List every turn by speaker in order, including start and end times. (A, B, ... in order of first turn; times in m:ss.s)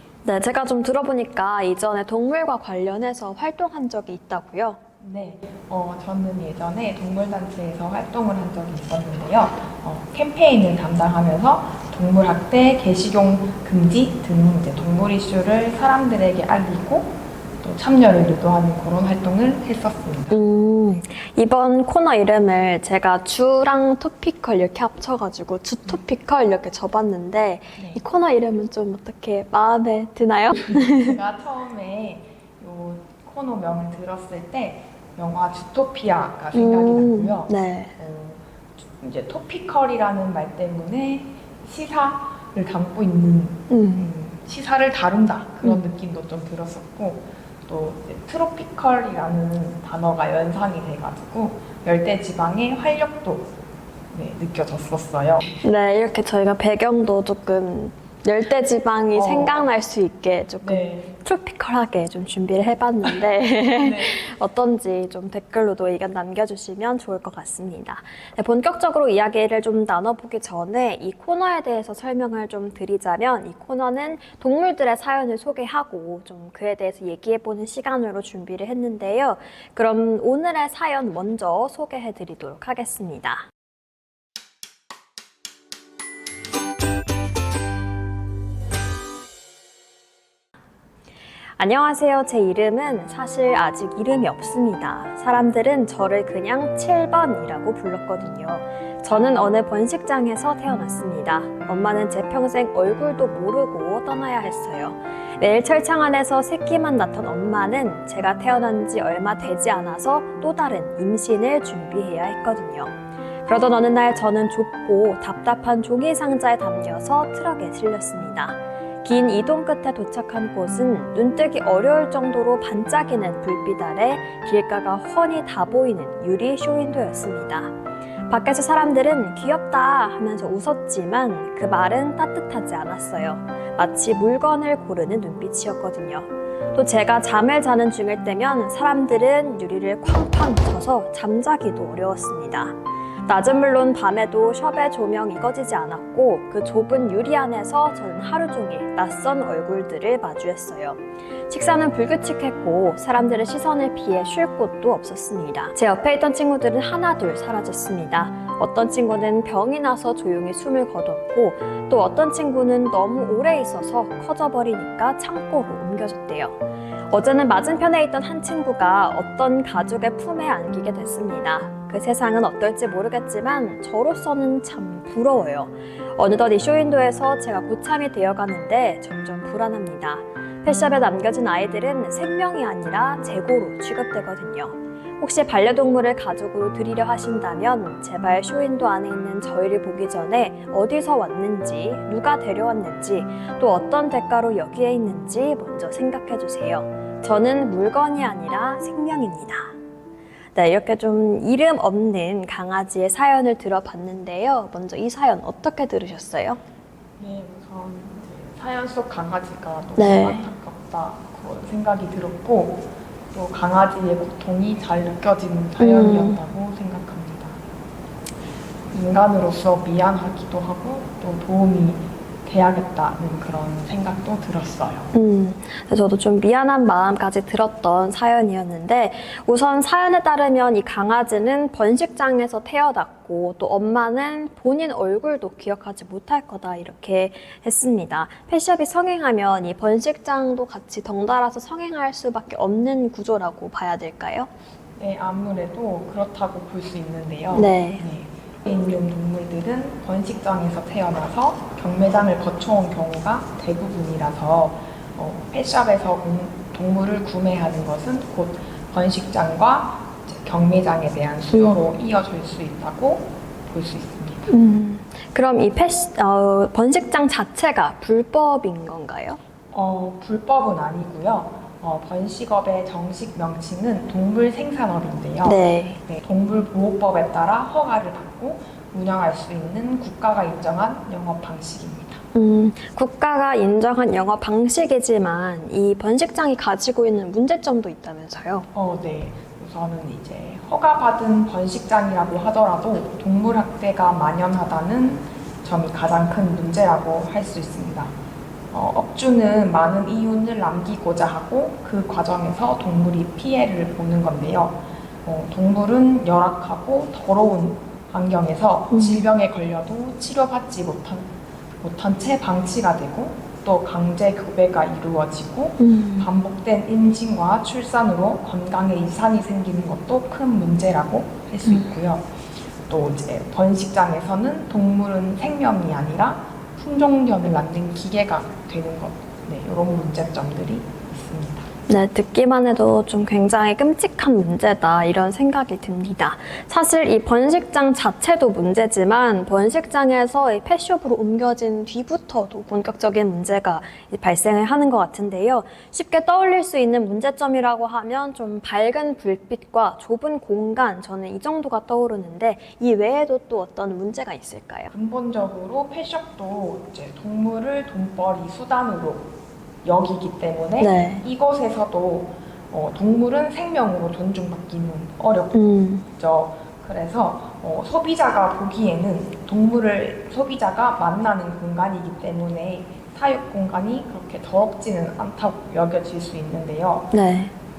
0:00.2-0:04.8 A
0:05.0-0:20.4 B
0:20.3-0:31.2 A
0:27.8-0:28.0 B
0:30.6-0:53.5 B
0:36.5-0:38.0 A
0:43.7-0:44.1 A
0:54.1-0:55.6 B
0:55.6-1:23.5 A
0:59.1-0:59.7 B
1:00.6-1:01.2 B
1:03.8-1:04.2 B
1:31.6-2:07.7 A
2:08.3-2:46.6 A
2:47.1-3:19.8 A
3:20.6-3:26.6 A
3:27.2-3:37.6 B
3:30.0-3:30.5 A
3:35.8-3:36.4 A
3:38.9-3:45.1 B
3:45.1-4:04.5 A
4:05.0-4:24.5 B
4:07.5-4:08.0 A
4:21.5-4:21.8 A
4:24.5-4:29.4 A
4:29.7-4:42.2 B
4:35.4-4:36.0 A
4:42.3-4:48.7 A
4:48.7-4:58.2 B
4:58.7-5:11.3 B
5:08.9-5:09.3 A
5:11.8-5:22.4 B
5:15.8-5:16.3 A
5:21.7-5:21.9 A
5:22.9-5:31.7 B
5:31.9-5:54.9 A
5:54.9-5:59.3 B
5:59.8-6:17.1 B
6:00.8-6:01.3 A
6:05.5-6:06.1 A
6:17.1-6:17.5 A